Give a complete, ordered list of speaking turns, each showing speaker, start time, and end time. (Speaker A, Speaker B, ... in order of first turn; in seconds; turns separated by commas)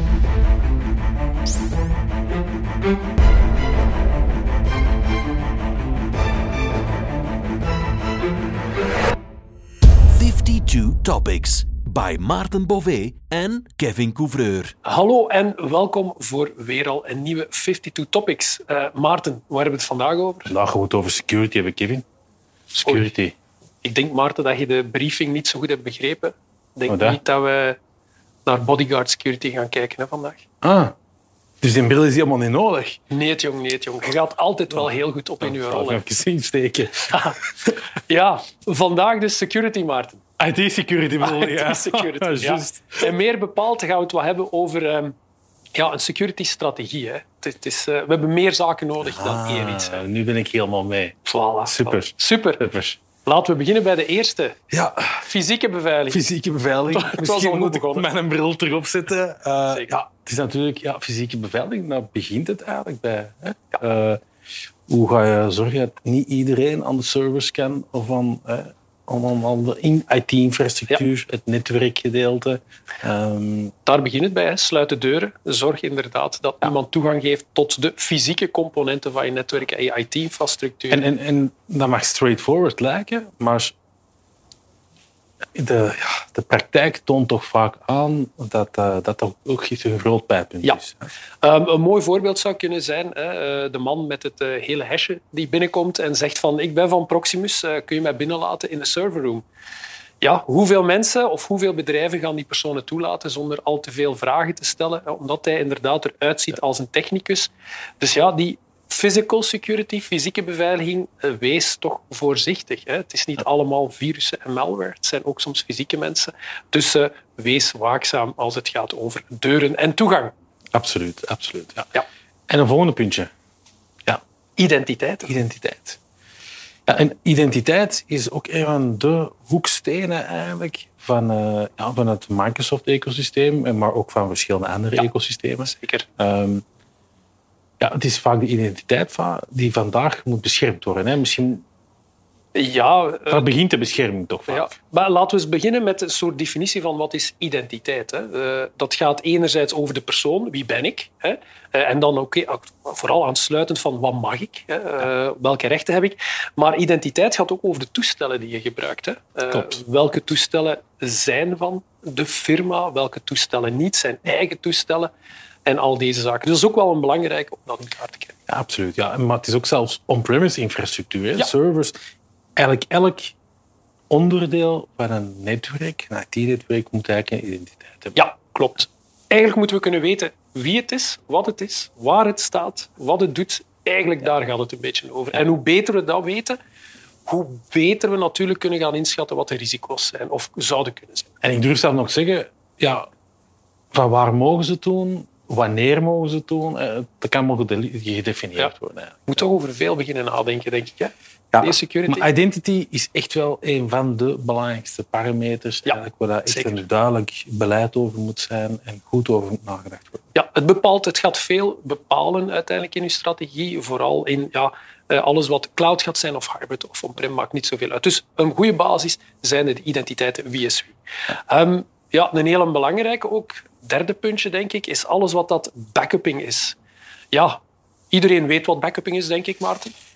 Speaker A: 10.1-14.7, Speaker B: 14.8-20.5, Speaker C: 20.4-22.0, Speaker C: 22.7-23.3, Speaker B: 23.8-27.8, Speaker C: 26.9-27.2, Speaker B: 28.4-30.4, Speaker C: 30.6-30.9, Speaker C: 31.6-33.0, Speaker B: 33.1-36.0, Speaker C: 34.7-37.7, Speaker B: 37.1-37.4, Speaker B: 38.1-40.2, Speaker C: 40.4-43.1, Speaker B: 41.2-45.1, Speaker B: 45.7-50.0, Speaker C: 49.0-53.0, Speaker B: 51.2-54.6, Speaker C: 54.7-55.3, Speaker B: 55.2-56.2, Speaker C: 56.1-64.2, Speaker B: 56.9-58.1, Speaker C: 64.9-73.7, Speaker B: 73.8-81.0, Speaker C: 80.9-83.7, Speaker C: 85.5-91.1, Speaker B: 91.4-99.5, Speaker B: 100.2-120.3, Speaker C: 120.7-121.9, Speaker C: 122.5-123.3, Speaker B: 124.6-125.3, Speaker C: 125.2-126.0, Speaker C: 126.9-136.6, Speaker B: 135.6-136.1, Speaker C: 137.8-141.6, Speaker B: 142.5-143.5, Speaker C: 143.3-144.7, Speaker B: 144.5-165.1, Speaker C: 159.5-159.8, Speaker B: 165.7-168.4, Speaker C: 168.5-171.9, Speaker C: 172.6-173.3, Speaker C: 174.1-178.3, Speaker B: 178.1-186.6, Speaker B: 187.2-191.3, Speaker C: 191.4-193.1, Speaker C: 193.9-199.4, Speaker B: 199.3-202.3, Speaker C: 201.5-210.3, Speaker B: 205.8-206.8, Speaker B: 210.3-226.8, Speaker B: 227.3-229.9